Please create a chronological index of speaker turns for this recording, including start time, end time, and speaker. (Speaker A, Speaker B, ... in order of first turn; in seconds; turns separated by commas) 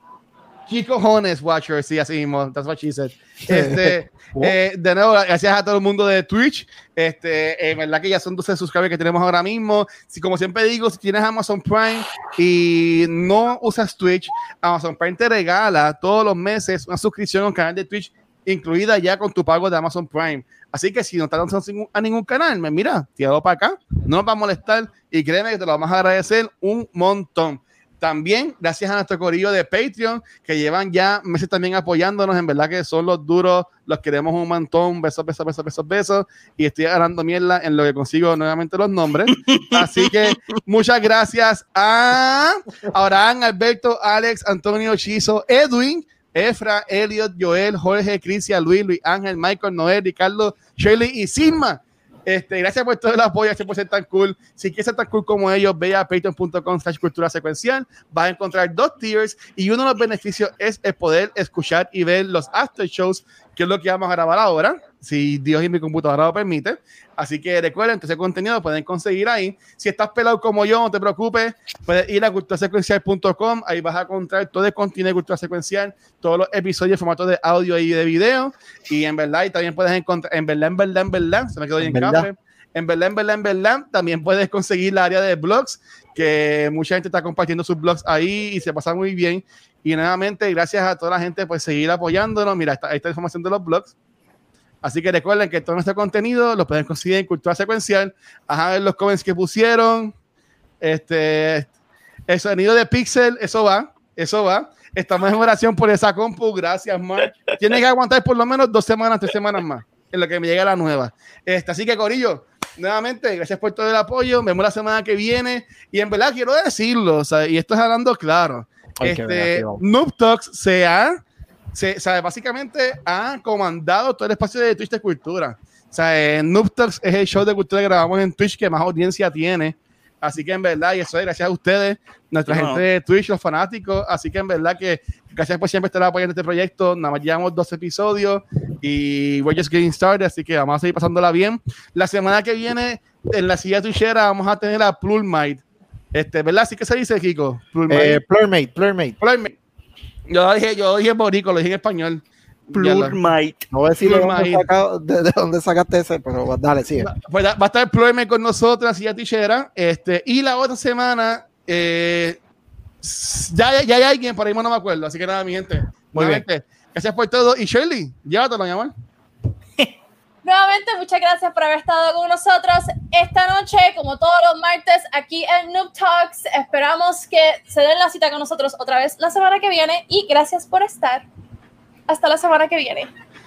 Speaker A: 0.7-93.9, Speaker B: 3.5-4.6, Speaker C: 39.4-40.6, Speaker B: 81.8-82.3, Speaker A: 94.8-100.1, Speaker A: 100.8-101.7, Speaker A: 102.3-121.2, Speaker C: 107.3-107.6, Speaker B: 119.0-119.8, Speaker A: 121.7-145.6, Speaker C: 132.5-132.8, Speaker A: 146.1-148.2, Speaker B: 147.9-149.2, Speaker A: 149.2-149.5, Speaker A: 150.3-153.2, Speaker C: 152.7-153.6, Speaker B: 153.7-157.1, Speaker A: 154.0-154.6, Speaker A: 157.0-162.4, Speaker A: 163.0-168.9, Speaker B: 166.2-166.4, Speaker D: 170.4-181.3, Speaker D: 182.1-183.1